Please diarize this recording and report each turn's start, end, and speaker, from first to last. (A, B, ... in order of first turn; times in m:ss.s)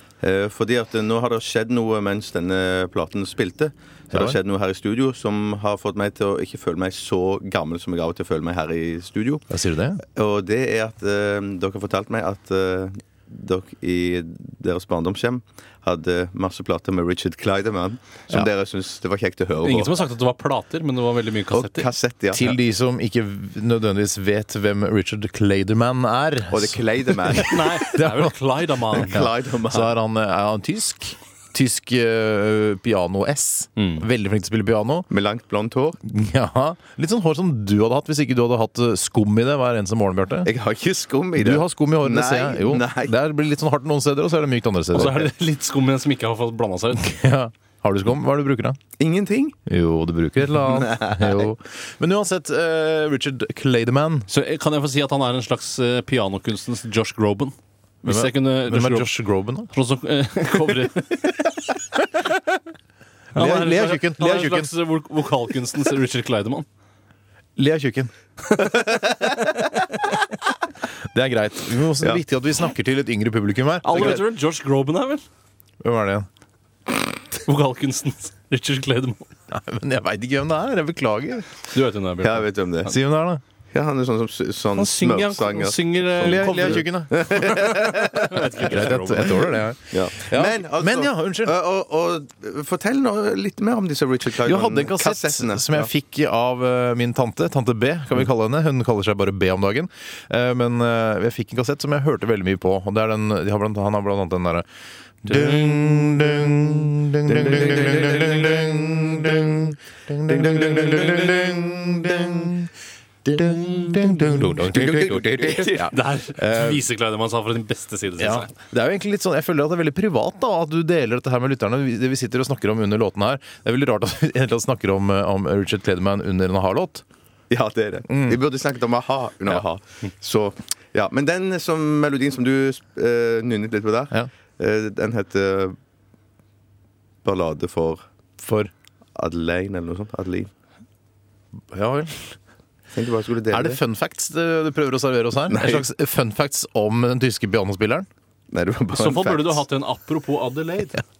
0:00.2-0:09.5 A
0:04.1-0:04.4 B
0:09.5-0:10.0 B
0:10.0-0:20.0 A
0:19.6-0:21.8 C
0:21.5-0:22.6 A
0:22.3-0:28.3 B
0:26.5-0:27.8 A
0:27.4-0:29.2 C
0:28.9-0:35.1 B
0:29.0-0:29.9 A
0:35.1-0:36.0 A
0:36.0-0:40.5 B
0:40.4-0:43.1 A
0:41.4-0:45.3 B
0:44.9-0:47.2 C
0:47.0-0:48.8 B
0:49.0-0:49.6 A
0:49.6-0:54.3 B
0:50.6-0:51.5 A
0:54.3-0:59.2 C
0:58.0-0:59.7 B
0:59.7-1:01.5 C
1:03.3-1:04.7 B
1:03.3-1:06.6 C
1:07.6-1:08.1 B
1:08.6-1:09.2 A
1:11.1-1:14.2 B
1:13.8-1:15.2 C
1:15.8-1:16.2 B
1:17.4-1:19.2 C
1:19.5-1:21.6 B
1:21.7-1:22.4 C
1:22.2-1:22.9 A
1:22.8-1:23.4 B
1:23.7-1:28.4 A
1:24.8-1:26.9 C
1:26.2-1:31.5 B
1:27.9-1:29.6 C
1:29.2-1:35.9 A
1:34.4-1:44.6 B
1:45.2-1:52.7 B
1:47.3-1:48.3 A
1:50.3-1:51.4 A
1:53.3-1:56.8 B
1:54.1-1:55.9 A
1:55.7-1:58.5 C
1:58.2-2:07.0 B
2:07.5-2:15.8 A
2:08.1-2:08.4 B
2:17.2-2:18.0 A
2:18.4-2:18.7 B
2:19.2-2:20.5 A
2:21.7-2:22.2 B
2:22.9-2:23.8 A
2:23.5-2:28.1 B
2:25.5-2:25.9 A
2:28.5-2:29.6 A
2:28.9-2:31.0 C